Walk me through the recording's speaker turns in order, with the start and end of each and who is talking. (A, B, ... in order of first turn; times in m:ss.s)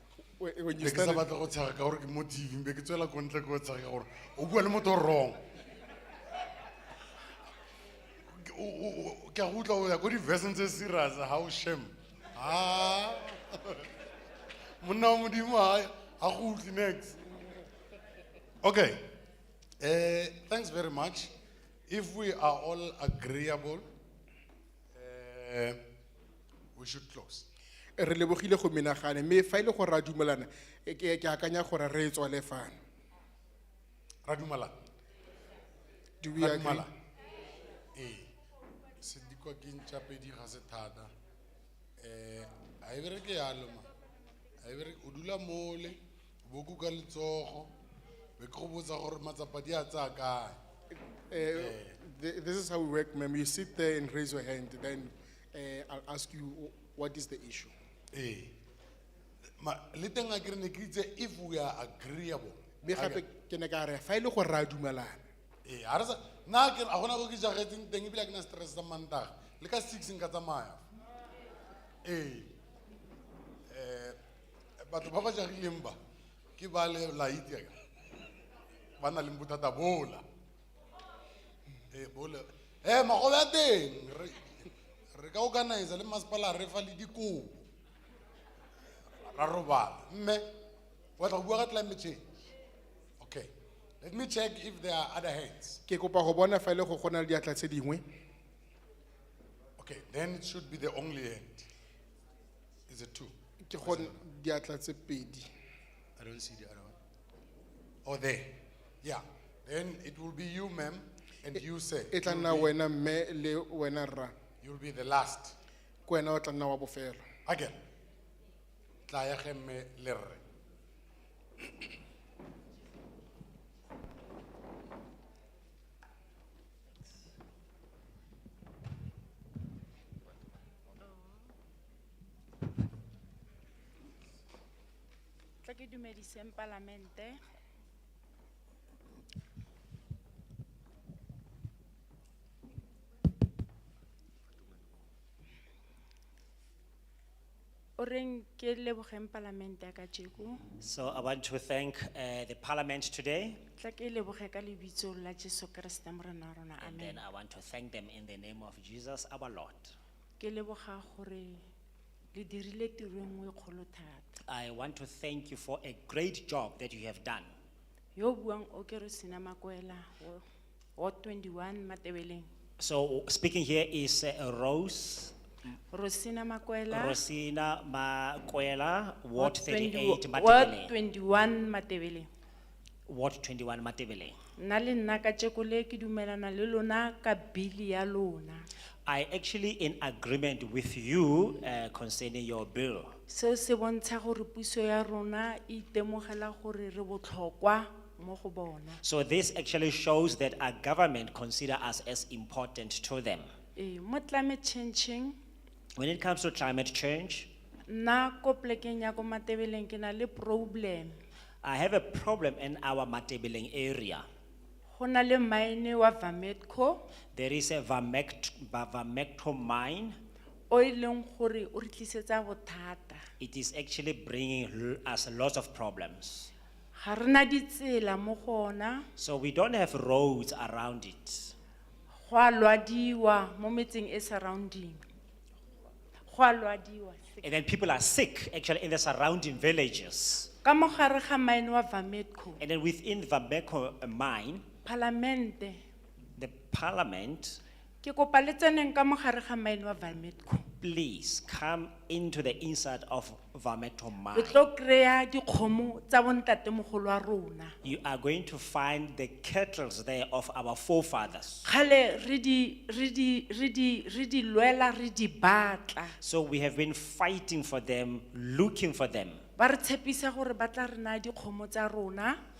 0:00.4-0:01.3 A
0:00.8-0:05.4 B
0:08.3-0:13.8 B
0:14.8-0:17.2 B
0:18.6-0:19.1 B
0:19.8-0:21.3 B
0:21.9-0:23.8 B
0:24.9-0:25.8 B
0:26.8-0:27.5 B
0:28.0-0:32.8 A
0:34.2-0:34.8 B
0:36.2-0:36.9 A
0:36.4-0:36.9 B
0:37.9-0:38.3 B
0:39.0-0:41.1 B
0:42.0-0:43.9 B
0:44.6-0:47.7 B
0:48.4-0:50.6 B
0:51.3-0:57.7 A
0:51.5-0:52.0 B
0:58.1-0:58.5 B
0:59.6-1:03.2 B
1:02.8-1:05.2 A
1:05.6-1:10.8 B
1:12.0-1:12.5 B
1:13.7-1:14.2 B
1:14.8-1:16.0 B
1:16.6-1:17.8 B
1:19.0-1:20.2 B
1:21.9-1:27.6 B
1:29.2-1:30.5 B
1:31.2-1:32.2 B
1:33.2-1:35.8 B
1:35.9-1:38.0 A
1:39.8-1:41.7 B
1:42.9-1:44.2 B
1:43.6-1:45.5 A
1:46.2-1:47.0 B
1:48.0-1:52.7 B
1:52.1-1:54.3 A
1:54.6-1:55.5 B
1:56.0-1:57.2 A
1:57.4-1:57.8 B
1:59.1-2:00.4 B
2:11.0-2:11.5 C
2:15.6-2:17.4 C
2:28.0-2:30.6 C
2:30.8-2:33.6 D
2:33.8-2:37.2 C
2:36.8-2:39.9 D
2:40.4-2:41.6 C
2:42.3-2:44.4 C
2:44.4-2:47.5 D
2:48.1-2:50.4 C
2:51.0-2:52.5 C
2:52.8-2:55.3 D
2:55.9-2:57.2 C
2:56.9-3:00.9 D
2:59.4-3:02.3 C
3:03.1-3:04.4 D
3:04.6-3:08.7 C
3:09.0-3:13.1 D
3:13.3-3:19.0 C
3:19.0-3:23.5 D
3:23.8-3:25.4 C
3:25.9-3:27.5 D
3:27.9-3:31.2 C
3:31.6-3:34.2 D
3:34.9-3:37.0 C
3:37.3-3:40.2 D
3:40.7-3:43.2 C
3:43.4-3:46.5 D
3:46.9-3:49.0 C
3:49.2-3:51.5 D
3:52.2-3:55.0 C
3:56.3-3:57.4 C
3:57.4-4:00.5 D
4:00.6-4:02.6 C
4:02.6-4:04.6 D
4:04.8-4:05.8 C
4:06.4-4:07.6 D
4:08.0-4:10.6 C
4:10.8-4:14.7 D
4:14.3-4:17.8 C
4:17.8-4:21.6 D
4:21.6-4:26.2 C
4:26.2-4:29.4 D
4:29.6-4:32.4 C